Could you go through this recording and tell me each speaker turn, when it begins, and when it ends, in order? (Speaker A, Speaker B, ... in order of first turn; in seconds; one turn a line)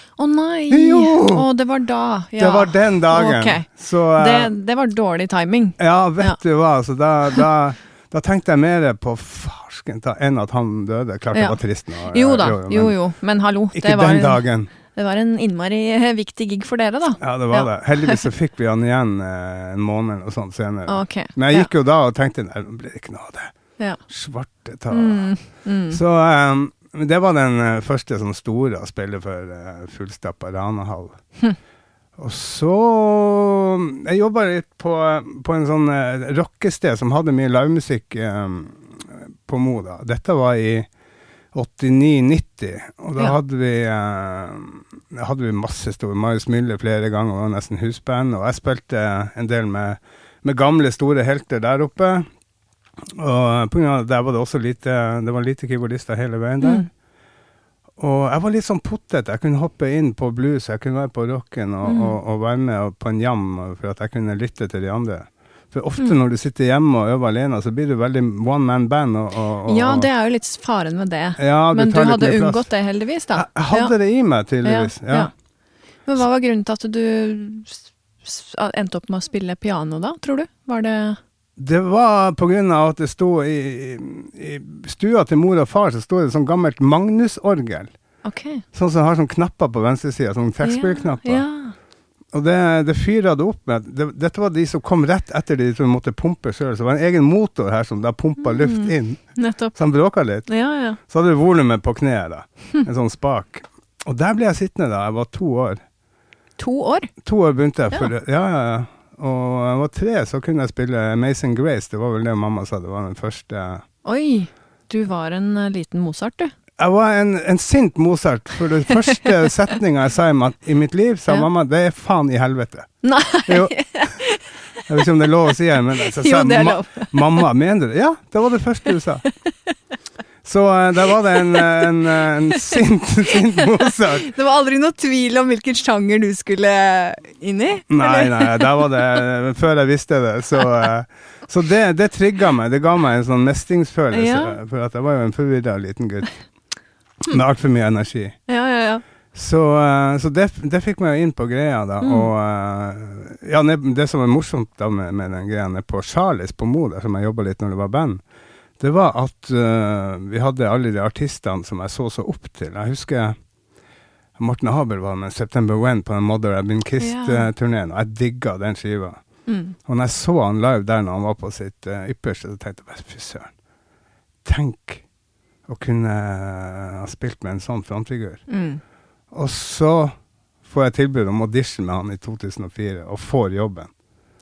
Speaker A: 0.2-6.4
Speaker B: 0.7-1.4
Speaker B: 2.4-4.5
Speaker B: 5.8-13.0
Speaker A: 11.3-18.2
Speaker B: 13.7-14.7
Speaker B: 17.2-23.5
Speaker A: 20.9-21.7
Speaker B: 24.1-31.3
Speaker A: 24.9-26.0
Speaker B: 32.2-40.9
Speaker B: 41.5-52.3
Speaker B: 53.1-56.9
Speaker A: 56.6-56.9
Speaker B: 58.0-70.1
Speaker A: 61.8-62.1
Speaker A: 69.7-73.9
Speaker B: 71.4-72.7
Speaker B: 73.3-75.3
Speaker A: 74.6-75.3
Speaker A: 76.0-81.2
Speaker B: 81.6-87.9
Speaker A: 88.2-88.6
Speaker B: 88.7-91.4
Speaker A: 90.6-91.7
Speaker B: 92.3-105.8
Speaker A: 98.6-99.8
Speaker A: 100.4-101.0
Speaker A: 106.6-107.1
Speaker B: 107.2-113.8
Speaker A: 114.0-116.5
Speaker B: 116.8-124.1
Speaker A: 123.0-124.5
Speaker B: 124.8-129.2
Speaker A: 126.0-127.3
Speaker A: 129.5-129.7
Speaker B: 130.4-134.3
Speaker A: 131.2-132.8
Speaker A: 133.6-139.0
Speaker B: 137.9-146.4
Speaker A: 144.1-144.6
Speaker B: 147.3-148.4
Speaker A: 148.5-149.0
Speaker B: 149.3-158.2
Speaker A: 152.0-152.3
Speaker B: 158.8-163.4
Speaker B: 164.4-169.2
Speaker A: 167.0-167.5
Speaker A: 169.5-169.8
Speaker B: 169.8-173.5
Speaker B: 174.4-175.0
Speaker B: 175.7-178.4
Speaker A: 178.5-178.8
Speaker B: 179.3-183.9